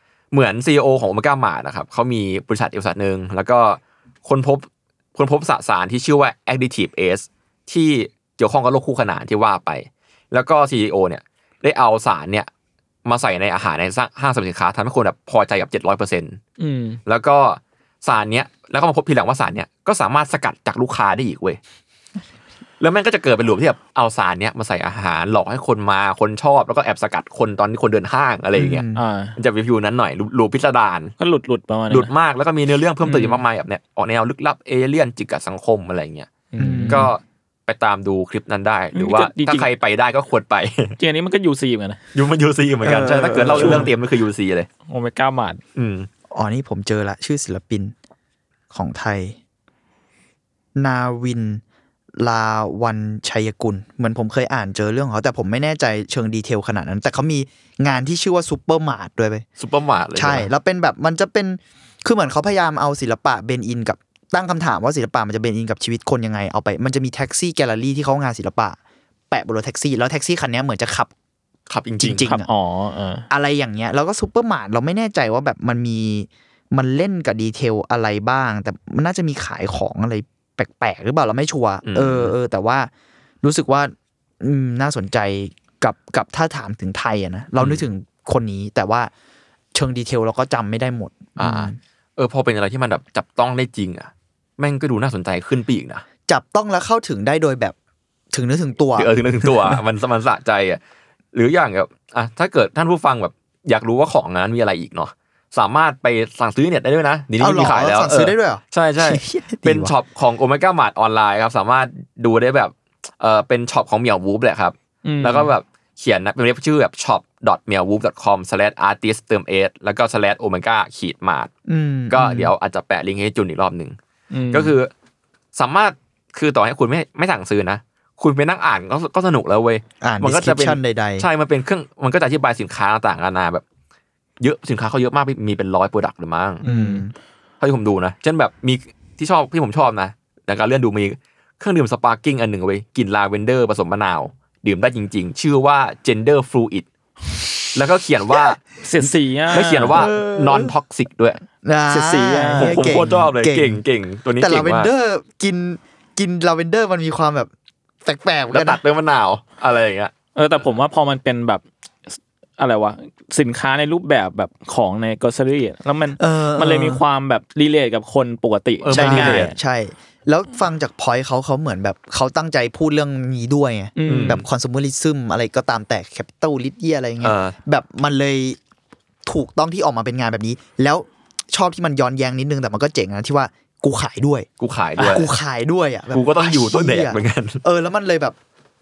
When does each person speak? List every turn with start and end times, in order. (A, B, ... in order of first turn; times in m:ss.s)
0:00.3-0:12.5 A
0:13.0-0:16.4 A
0:16.6-0:17.0 B
0:17.0-0:21.6 A
0:22.8-0:31.1 A
0:28.6-0:29.0 C
0:28.9-0:29.3 B
0:31.2-0:32.1 B
0:31.9-0:36.3 A
0:33.0-0:33.4 B
0:36.5-0:37.1 B
0:36.6-0:37.1 C
0:36.9-0:41.0 A
0:38.9-0:39.7 B
0:41.0-0:42.0 B
0:42.1-0:44.7 A
0:42.8-0:43.9 C
0:43.6-0:43.9 B
0:44.9-0:45.6 B
0:45.8-0:46.1 A
0:46.3-0:47.9 C
0:48.7-0:49.4 C
0:50.8-0:51.6 C
0:52.2-0:59.4 C
0:59.6-1:00.5 A
1:00.1-1:08.8 C
1:09.3-1:11.1 C
1:11.7-1:12.3 A
1:12.0-1:12.5 C
1:12.2-1:13.3 B
1:13.3-1:22.9 C
1:21.8-1:22.3 A
1:23.4-1:29.1 C
1:27.6-1:27.8 A
1:29.7-1:31.8 C
1:31.4-1:36.0 A
1:36.3-1:37.7 C
1:38.3-1:39.8 C
1:38.9-1:40.8 A
1:41.3-2:01.5 A
1:47.4-1:49.9 C
1:55.0-1:55.5 B
2:01.6-2:02.5 C
2:02.1-2:04.0 A
2:04.3-2:04.8 B
2:04.5-2:04.9 A
2:05.5-2:13.6 A
2:10.0-2:11.2 C
2:14.4-2:16.6 A
2:16.6-2:17.0 B
2:16.6-2:17.1 C
2:17.6-2:26.8 A
2:27.7-2:28.6 A
2:28.8-2:30.1 B
2:29.5-2:31.4 A
2:29.9-2:30.7 C
2:31.6-2:33.8 C
2:31.9-2:33.1 B
2:32.5-2:34.9 A
2:34.4-2:37.5 C
2:38.0-2:38.8 C
2:38.5-2:40.1 A
2:40.4-2:41.6 B
2:42.6-2:49.5 B
2:46.2-2:47.0 C
2:48.8-2:49.5 A
2:48.9-2:58.6 C
2:54.0-2:54.4 B
2:54.0-2:54.4 A
2:57.2-2:57.5 A
2:59.2-3:08.4 C
3:04.6-3:05.3 A
3:06.1-3:07.6 A